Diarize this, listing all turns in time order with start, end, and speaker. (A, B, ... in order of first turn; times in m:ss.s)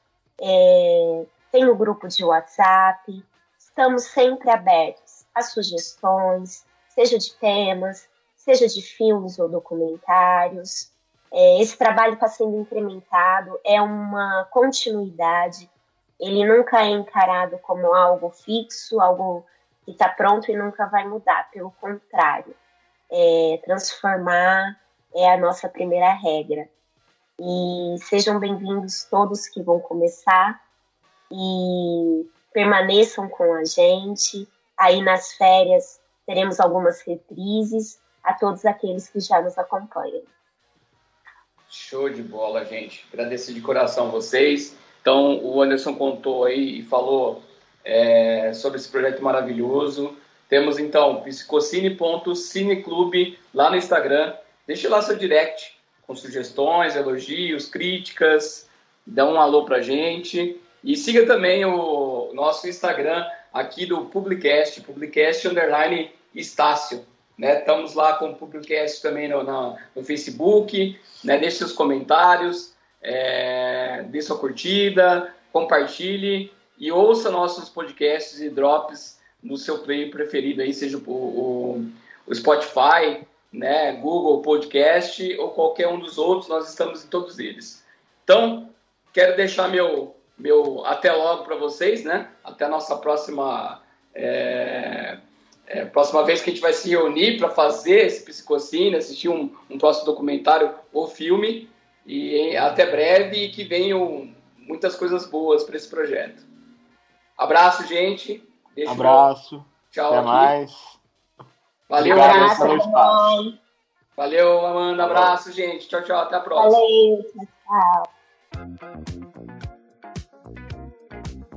0:00.4-0:22.6 A
0:23.1-0:26.7 A
0:27.4-0:30.6 A
0:31.3-0:40.3 A
0:41.7-1:46.4 B
1:47.4-1:49.3 B
1:48.8-1:51.0 C
1:49.9-1:50.5 B
1:51.9-1:52.8 B
1:52.0-1:53.3 C
1:52.0-1:53.6 A
1:54.2-1:56.8 B
1:55.0-1:55.4 C
1:56.6-1:58.1 A